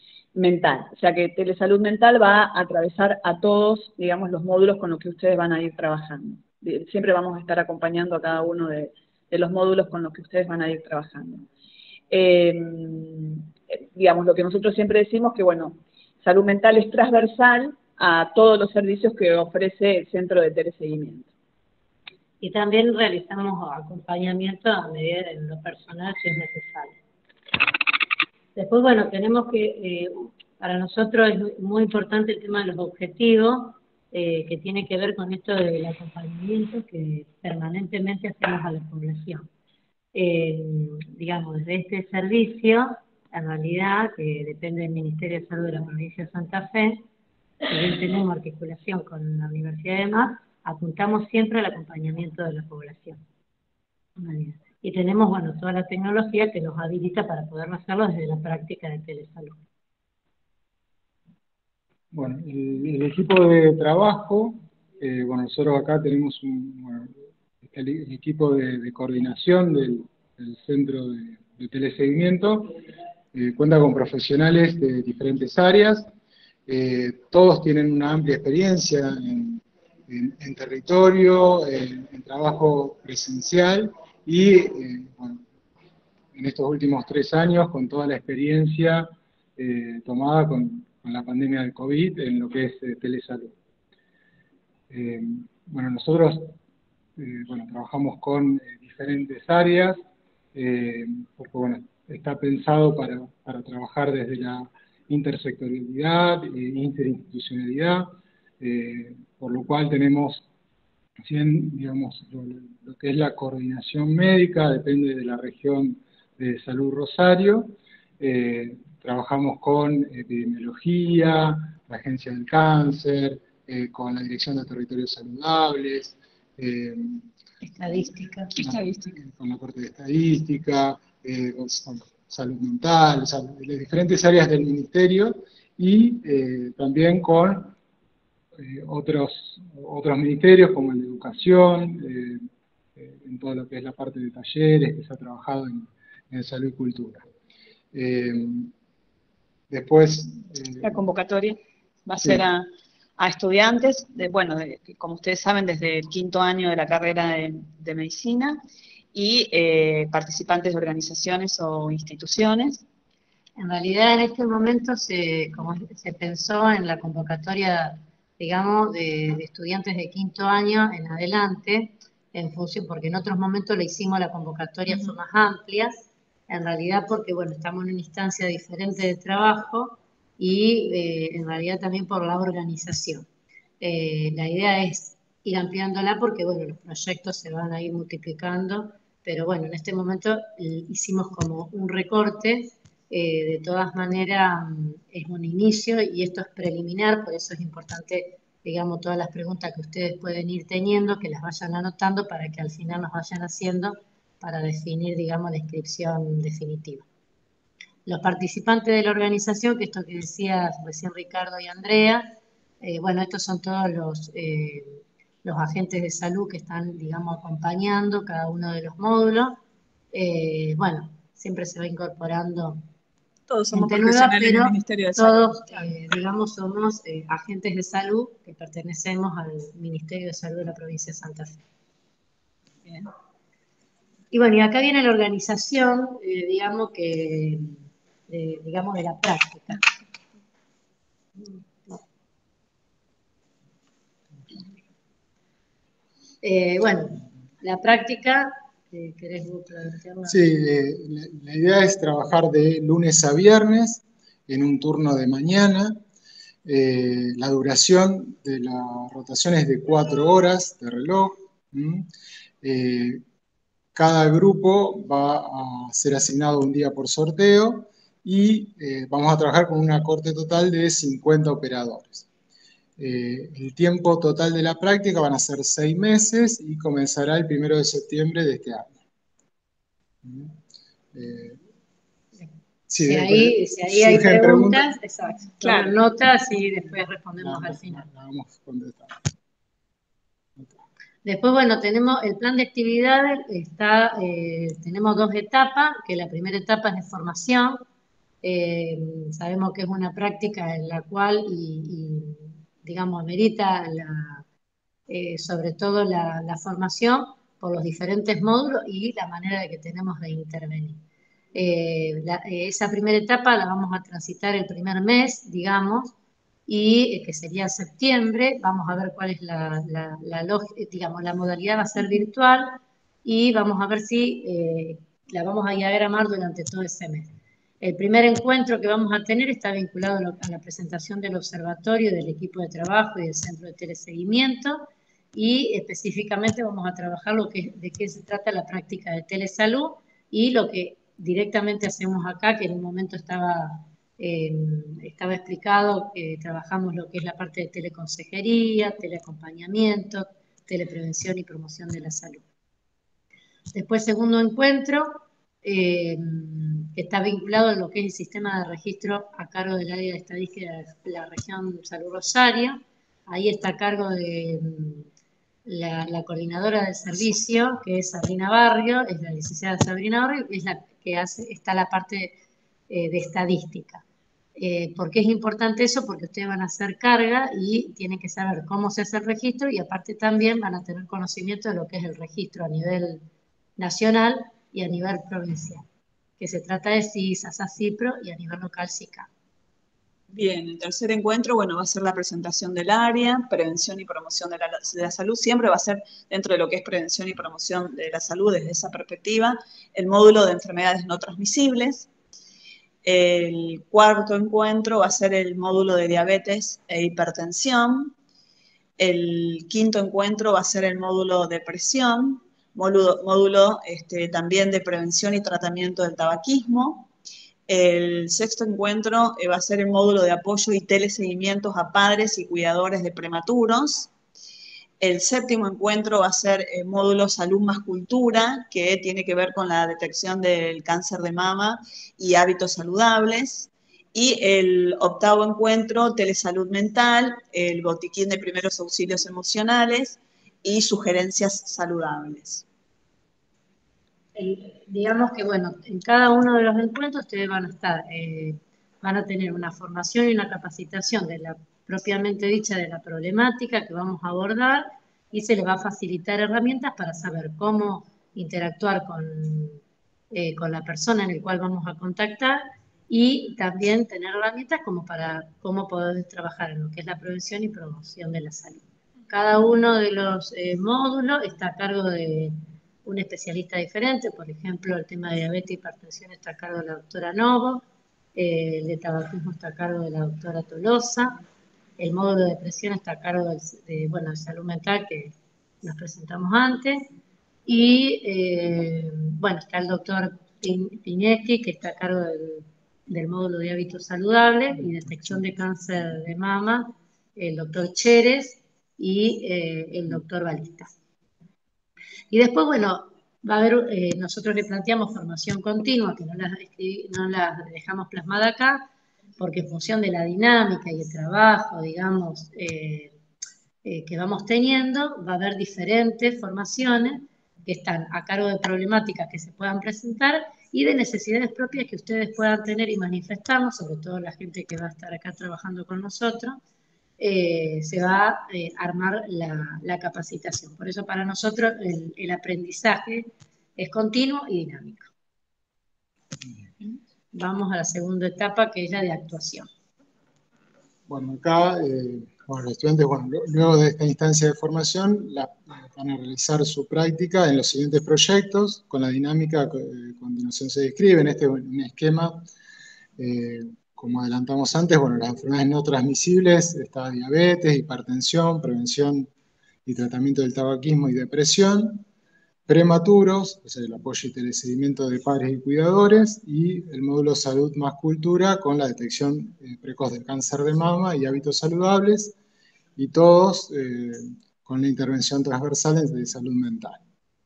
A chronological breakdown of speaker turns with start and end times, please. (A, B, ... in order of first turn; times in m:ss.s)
0:00.3-0:11.5 A
0:12.1-0:21.3 A
0:22.4-0:27.0 B
0:28.5-0:39.5 B
0:40.1-0:47.0 B
0:47.6-0:53.2 B
0:54.2-0:59.6 B
1:02.1-1:12.7 C
1:13.3-1:16.1 C
1:16.7-1:25.4 C
1:26.3-1:33.5 C
1:34.9-1:36.6 C
1:37.2-1:40.0 C
1:40.5-1:50.4 C
1:51.2-2:07.2 C
2:07.6-2:08.5 B
2:08.6-2:09.1 A
2:08.6-2:17.7 C
2:18.6-2:22.4 C
2:23.0-2:27.2 C
2:27.9-2:28.7 C
2:29.7-2:30.9 C
2:30.8-2:32.7 A
2:33.2-2:38.6 A
2:39.1-2:42.8 A
2:43.6-2:55.9 B
2:54.9-2:55.1 A
2:56.5-3:03.2 B
3:03.8-3:27.0 B
3:28.0-3:39.6 B
3:40.1-3:42.8 B
3:43.5-3:45.9 A
3:43.7-3:51.6 B
3:52.8-3:53.1 A
3:54.3-3:57.8 B
3:58.3-3:59.8 B
4:01.4-4:02.0 B
4:06.4-4:10.4 B
4:10.2-4:16.0 C
4:16.6-4:22.1 C
4:22.6-4:23.2 C
4:23.9-4:32.2 C
4:33.0-4:38.9 C
4:40.2-4:40.6 C
4:41.1-4:41.6 C
4:42.9-4:44.9 C
4:43.0-4:48.0 B
4:45.6-4:45.9 A
4:47.4-4:49.2 C
4:51.2-4:57.8 B
4:58.4-5:04.4 B
5:05.1-5:11.0 B
5:11.5-5:16.1 B
5:16.7-5:27.3 B
5:27.8-5:52.4 B
5:53.7-6:05.1 B
6:05.6-6:12.4 B
6:12.9-6:14.0 B
6:14.6-6:23.2 B
6:23.8-6:25.8 B
6:26.4-6:29.3 B
6:30.3-6:42.1 A
6:43.0-6:48.1 A
6:49.0-6:57.1 A
6:57.7-7:04.1 A
7:05.0-7:22.6 A
7:24.3-7:39.8 B
7:40.3-7:57.8 B
7:58.3-8:01.4 B
8:02.0-8:07.0 B
8:07.6-8:20.9 B
8:22.3-8:28.9 B
8:29.4-8:33.1 B
8:33.8-8:46.6 B
8:47.2-8:55.1 B
8:57.3-8:59.7 B
9:01.1-9:12.5 C
9:13.2-9:19.3 C
9:19.8-9:22.0 C
9:22.7-9:32.3 C
9:33.0-9:37.0 C